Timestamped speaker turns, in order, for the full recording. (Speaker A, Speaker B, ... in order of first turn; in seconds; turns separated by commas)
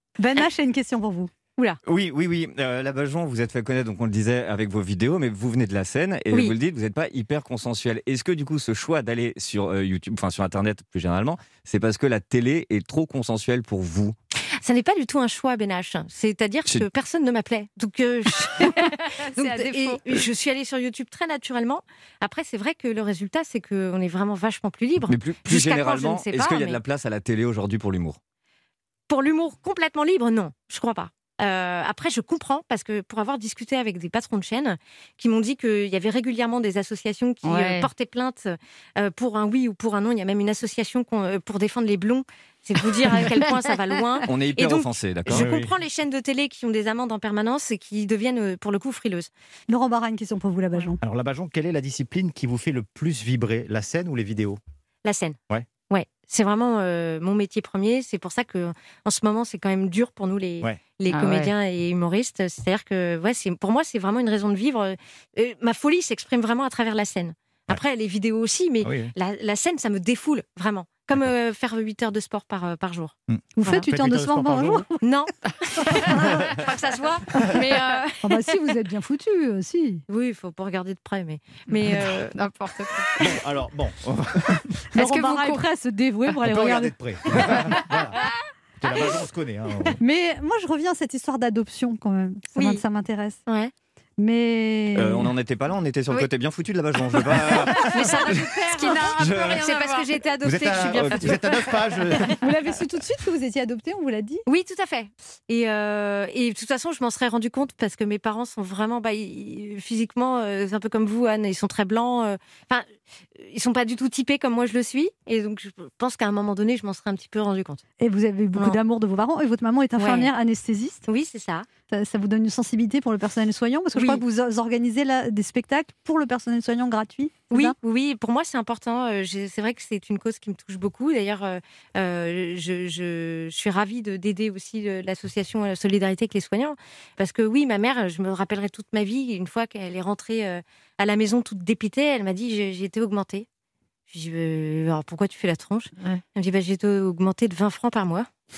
Speaker A: 0.2-1.3, Speaker B: 1.8-14.1, Speaker C: 14.6-26.8, Speaker D: 18.7-20.0, Speaker B: 25.1-28.2, Speaker C: 29.1-49.3, Speaker D: 37.4-37.9, Speaker B: 44.2-45.5, Speaker E: 45.3-45.7, Speaker A: 49.7-51.0, Speaker E: 51.0-54.6, Speaker C: 55.0-55.4, Speaker C: 55.9-73.9, Speaker D: 61.1-61.5, Speaker E: 68.8-69.1, Speaker E: 73.3-74.9, Speaker A: 73.5-75.0, Speaker C: 75.0-78.4, Speaker A: 76.0-76.2, Speaker D: 77.5-78.0, Speaker A: 78.2-80.0, Speaker C: 80.1-82.3, Speaker D: 82.3-83.1, Speaker E: 83.2-84.7, Speaker A: 84.9-86.9, Speaker D: 84.9-85.6, Speaker E: 86.4-88.2, Speaker E: 88.8-90.0, Speaker A: 90.0-93.4, Speaker C: 92.5-92.8, Speaker C: 93.5-93.7, Speaker A: 94.2-95.3, Speaker B: 94.9-98.4, Speaker C: 97.6-101.8, Speaker D: 97.7-98.1, Speaker D: 98.7-100.1, Speaker B: 99.1-99.7, Speaker E: 100.4-102.3, Speaker B: 101.0-101.3, Speaker A: 102.4-104.4, Speaker C: 104.5-117.8, Speaker A: 118.0-121.0, Speaker C: 120.0-120.3, Speaker C: 121.1-121.7, Speaker A: 121.9-127.8, Speaker C: 123.9-124.2, Speaker C: 127.5-143.4, Speaker C: 144.1-148.3